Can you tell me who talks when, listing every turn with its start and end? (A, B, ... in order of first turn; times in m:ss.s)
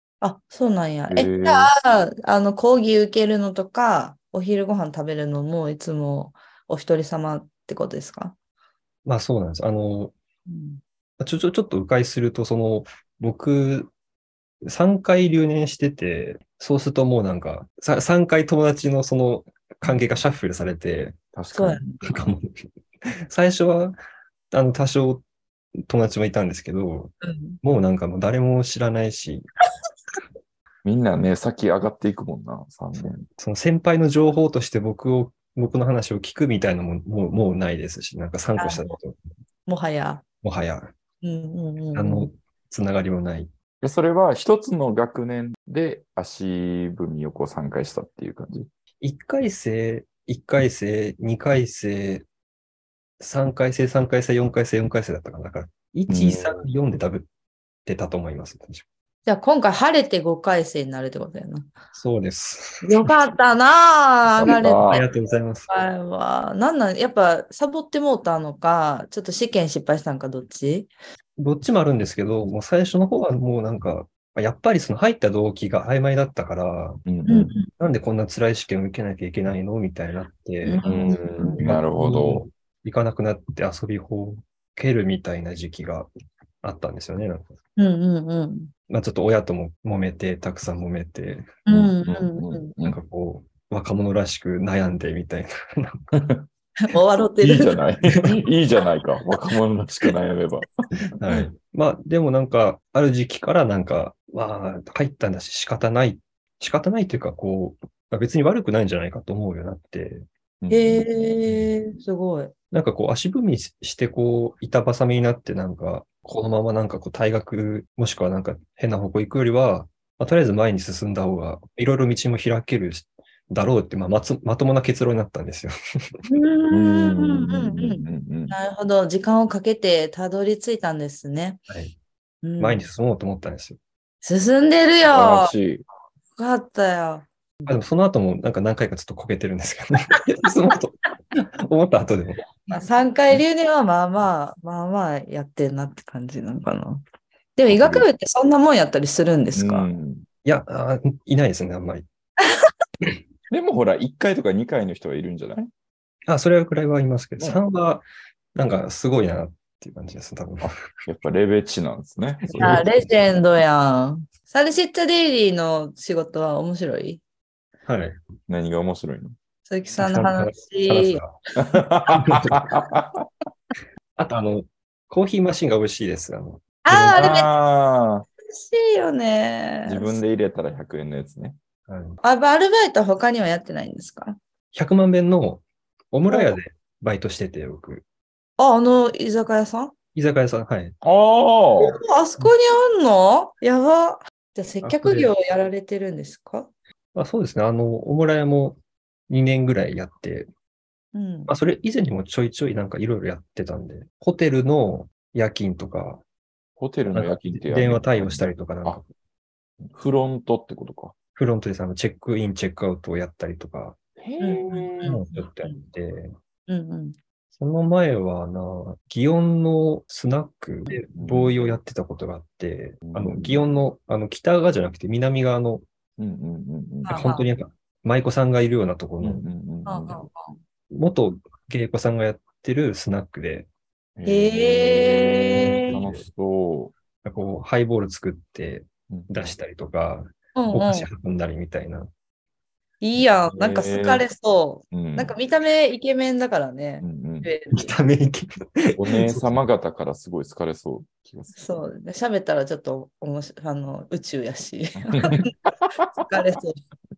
0:00.2-0:08.4 A
0:01.1-0:01.7 B
0:09.1-0:10.1 C
0:10.5-0:10.8 A
0:11.2-0:13.9 C
0:14.6-0:21.2 C
0:21.3-0:22.3 B
0:21.5-0:22.0 A
0:22.0-0:22.5 C
0:23.2-0:24.0 C
0:24.5-0:25.2 C
0:25.9-0:29.5 C
0:27.2-0:27.6 A
0:30.8-0:33.3 B
0:33.4-0:39.2 C
0:38.6-0:38.9 A
0:39.7-0:40.2 A
0:40.4-0:40.9 C
0:41.2-0:42.3 A
0:42.0-0:43.5 C
0:43.8-0:48.7 B
0:49.0-0:52.3 C
0:53.2-0:57.3 C
0:56.1-0:56.6 B
0:57.8-0:58.8 C
0:59.3-1:01.7 A
1:02.0-1:03.1 C
1:02.8-1:05.1 A
1:04.4-1:05.0 B
1:04.4-1:05.7 C
1:05.7-1:10.9 A
1:11.4-1:17.0 C
1:17.1-1:17.6 B
1:17.3-1:17.7 A
1:17.7-1:26.1 C
1:20.6-1:21.7 A
1:20.8-1:22.5 B
1:26.6-1:27.6 C
1:27.8-1:28.7 A
1:28.9-1:31.6 C
1:31.7-1:32.7 A
1:31.7-1:33.0 B
1:32.8-1:36.3 C
1:36.8-1:37.8 A
1:37.4-1:40.7 B
1:41.2-1:50.3 C
1:50.6-1:51.1 B
1:50.7-1:52.5 A
1:52.7-2:05.8 C
2:06.3-2:11.6 A
2:06.7-2:08.6 B
2:11.7-2:12.0 C
2:12.4-2:12.9 A
2:12.6-2:13.8 C
2:14.2-2:15.5 A
2:15.1-2:15.8 B
2:16.4-2:17.3 A
2:17.7-2:22.6 C
2:22.7-2:27.0 A
2:27.6-2:29.9 A
2:27.7-2:28.1 B
2:29.6-2:30.3 B
2:30.4-2:32.1 C
2:33.5-2:35.7 B
2:36.3-2:40.7 C
2:40.6-2:42.8 B
2:42.4-2:42.8 C
2:42.6-2:47.2 A
2:47.9-2:48.2 C
2:48.5-2:49.4 B
2:49.7-2:51.2 A
2:50.0-2:51.4 C
2:51.6-2:53.2 B
2:52.1-2:52.6 C
2:54.2-2:57.4 C
2:56.8-2:57.5 A
2:57.1-2:58.3 B
2:58.4-3:00.2 A
2:59.9-3:01.6 B
3:01.9-3:02.2 C
3:02.2-3:04.4 A
3:04.7-3:08.0 C
3:06.3-3:06.6 A
3:08.6-3:09.9 A
3:10.2-3:11.0 C
3:11.0-3:12.0 B
3:11.8-3:16.7 A
3:14.8-3:15.3 C
3:17.2-3:18.8 C
3:19.3-3:20.5 C
3:21.1-3:21.5 A
3:21.5-3:26.2 C
3:26.8-3:29.0 B
3:27.1-3:29.0 C
3:29.8-3:31.2 B
3:31.4-3:34.0 C
3:34.2-3:35.2 B
3:34.4-3:35.8 A
3:35.0-3:36.3 C
3:36.7-3:37.2 A
3:37.6-3:45.8 C
3:41.2-3:41.7 B
3:43.0-3:43.7 B
3:46.2-3:47.3 B
3:47.0-3:47.5 A
3:47.1-3:49.4 C
3:49.2-3:50.2 B
3:49.9-3:50.6 A
3:50.9-3:53.7 C
3:54.2-3:57.0 B
3:54.3-3:56.0 A
3:55.5-3:56.2 C
3:57.2-4:02.1 C
4:00.6-4:01.1 A
4:03.0-4:08.0 A
4:03.6-4:04.2 B
4:04.9-4:05.3 B
4:07.0-4:07.5 B
4:07.7-4:09.6 C
4:09.0-4:11.8 B
4:11.6-4:15.6 A
4:15.0-4:15.4 B
4:16.2-4:16.8 A